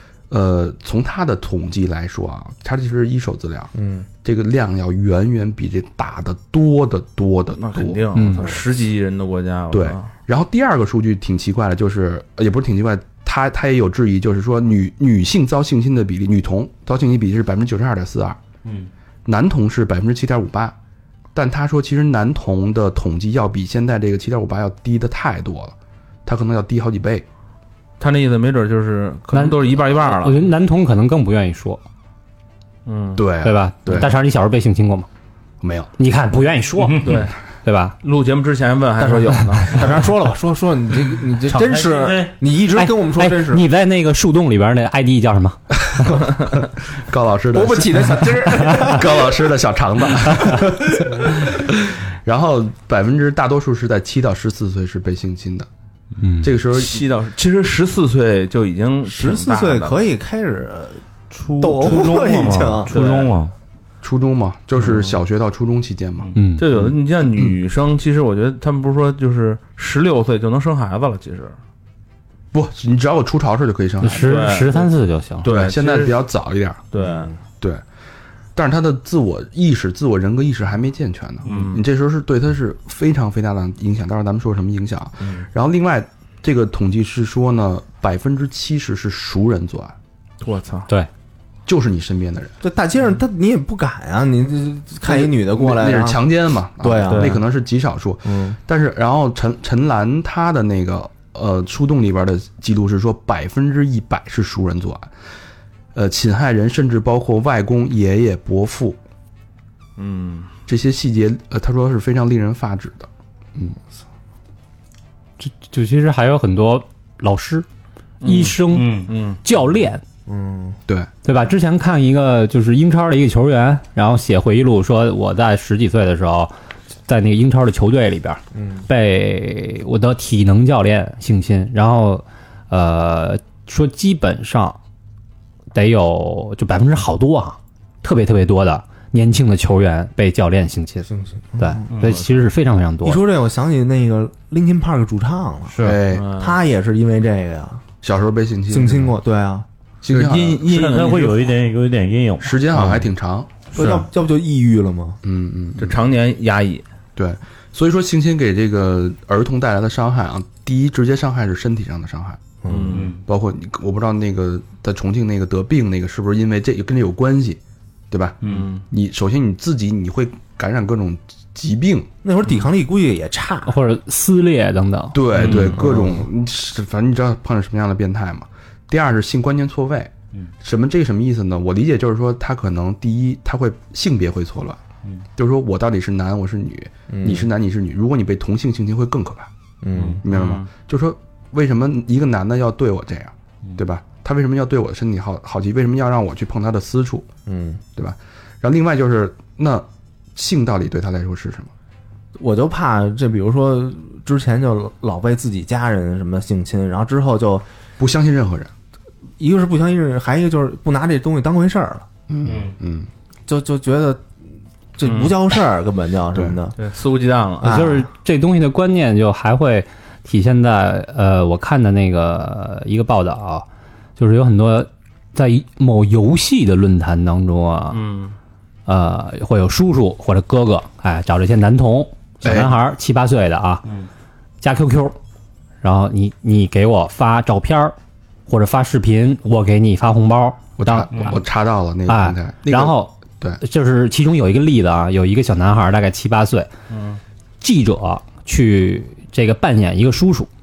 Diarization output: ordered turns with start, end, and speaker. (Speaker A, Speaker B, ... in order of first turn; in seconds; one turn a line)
Speaker A: 0.3-8.0
Speaker B: 3.7-4.0
Speaker C: 7.6-10.1
Speaker D: 8.1-8.5
Speaker A: 9.7-18.4
Speaker E: 18.6-18.9
Speaker A: 19.2-20.7
Speaker A: 21.3-25.7
Speaker A: 26.2-27.2
Speaker C: 28.0-30.4
Speaker D: 29.3-31.8
Speaker C: 32.8-33.2
Speaker A: 33.1-34.1
Speaker D: 33.4-35.1
Speaker A: 35.6-35.9
Speaker D: 36.0-37.9
Speaker E: 36.8-37.2
Speaker C: 37.0-37.4
Speaker C: 38.0-40.0
Speaker B: 39.0-43.6
Speaker E: 41.5-42.3
Speaker D: 42.7-46.0
Speaker A: 46.9-55.7
Speaker B: 47.5-49.5
Speaker B: 50.4-51.5
Speaker D: 56.2-56.5
Speaker A: 56.4-57.0
Speaker C: 56.7-60.0
Speaker B: 59.0-61.0
Speaker E: 61.3-63.5
Speaker B: 61.6-62.9
Speaker C: 62.9-63.3
Speaker A: 64.0-67.5
Speaker C: 64.8-65.2
Speaker D: 66.3-66.6
Speaker C: 66.6-71.5
Speaker A: 72.5-74.4
Speaker D: 74.0-75.5
Speaker C: 74.1-74.9
Speaker C: 75.4-76.2
Speaker A: 75.4-76.8
Speaker C: 76.9-77.3
Speaker B: 77.0-77.4
Speaker A: 78.5-89.9
Speaker C: 81.4-81.8
Speaker C: 90.4-90.9
Speaker A: 91.7-92.5
Speaker B: 92.6-96.2
Speaker A: 95.0-105.1
Speaker B: 96.8-97.4
Speaker C: 97.1-97.4
Speaker B: 98.2-98.6
Speaker A: 105.9-109.0
Speaker C: 110.0-110.5
Speaker A: 110.7-113.8
Speaker D: 115.4-117.7
Speaker C: 118.2-119.4
Speaker D: 118.2-120.0
Speaker E: 118.7-119.1
Speaker B: 120.2-120.8
Speaker D: 121.2-126.5
Speaker D: 127.1-134.8
Speaker B: 128.5-128.8
Speaker D: 135.7-143.2
Speaker B: 141.1-141.9
Speaker E: 141.9-142.2
Speaker B: 143.0-147.8
Speaker E: 145.7-146.0
Speaker A: 145.8-146.3
Speaker C: 146.1-146.6
Speaker A: 148.0-149.1
Speaker B: 148.7-149.7
Speaker A: 150.0-151.3
Speaker C: 150.1-151.4
Speaker E: 150.6-152.8
Speaker A: 152.4-153.5
Speaker B: 152.7-153.0
Speaker B: 153.7-155.2
Speaker E: 153.7-154.0
Speaker A: 155.2-156.0
Speaker C: 155.8-156.8
Speaker A: 157.2-162.4
Speaker B: 162.6-163.0
Speaker C: 162.7-163.1
Speaker E: 162.9-163.2
Speaker A: 163.2-167.6
Speaker A: 168.1-172.1
Speaker C: 168.4-168.8
Speaker B: 172.2-173.7
Speaker D: 173.7-175.2
Speaker A: 175.1-184.8
Speaker C: 175.3-175.8
Speaker B: 175.4-176.2
Speaker A: 185.3-189.5
Speaker B: 187.1-187.5
Speaker B: 189.8-190.2
Speaker A: 190.2-197.3
Speaker C: 190.2-190.7
Speaker B: 197.5-197.8
Speaker A: 197.9-201.7
Speaker B: 202.3-207.6
Speaker A: 208.0-208.7
Speaker B: 209.4-212.1
Speaker A: 212.3-213.1
Speaker E: 212.4-212.7
Speaker B: 213.5-214.2
Speaker B: 214.9-216.8
Speaker C: 215.0-215.3
Speaker C: 216.8-217.7
Speaker B: 217.6-218.1
Speaker D: 217.6-223.6
Speaker D: 224.2-228.0
Speaker C: 227.9-228.3
Speaker D: 228.8-233.8
Speaker A: 232.4-232.7
Speaker D: 234.6-235.2
Speaker D: 235.8-237.9
Speaker D: 238.5-241.4
Speaker A: 240.8-243.6
Speaker E: 241.1-241.4
Speaker D: 242.1-246.7
Speaker C: 246.9-247.2
Speaker D: 247.6-250.5